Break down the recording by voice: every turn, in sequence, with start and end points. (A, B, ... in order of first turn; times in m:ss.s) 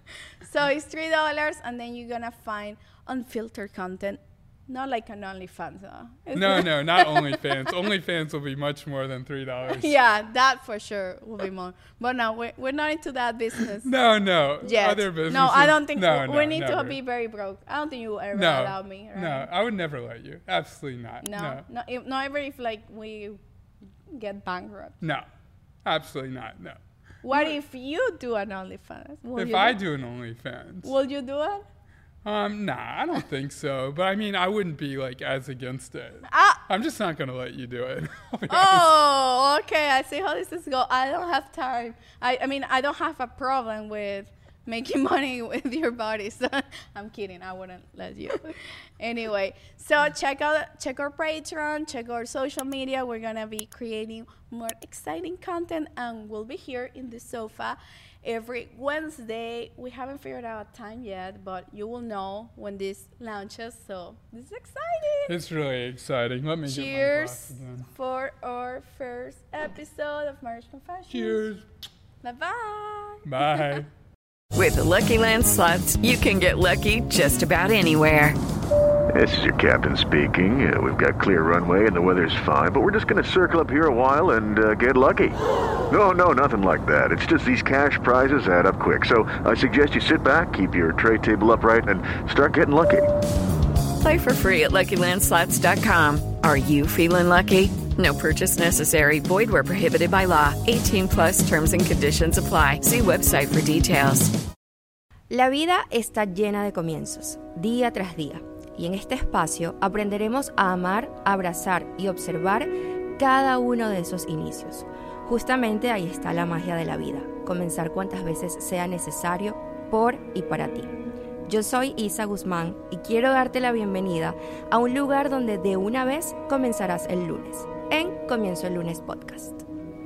0:00.4-0:07.7 A
0:06.3-0:10.0 B
0:09.7-0:13.9 A
0:13.6-0:17.0 B
0:14.6-0:19.5 A
0:18.3-0:21.6 B
0:21.2-0:23.4 A
0:24.1-0:25.0 A
0:25.0-0:25.3 B
0:25.8-0:26.8 B
0:27.2-0:29.8 A
0:27.3-0:27.6 B
0:29.4-0:31.0 B
0:30.8-0:31.6 A
0:32.2-0:39.0 B
0:36.3-0:36.6 A
0:38.5-1:05.4 A
1:05.3-1:07.9 B
1:06.6-1:11.4 A
1:11.1-1:11.7 B
1:12.2-1:13.8 A
1:13.2-1:13.9 B
1:14.5-1:18.4 C
1:19.1-1:25.4 D
1:25.9-1:33.1 D
1:34.0-1:44.3 C
1:45.3-2:00.9 E
2:01.5-2:09.6 E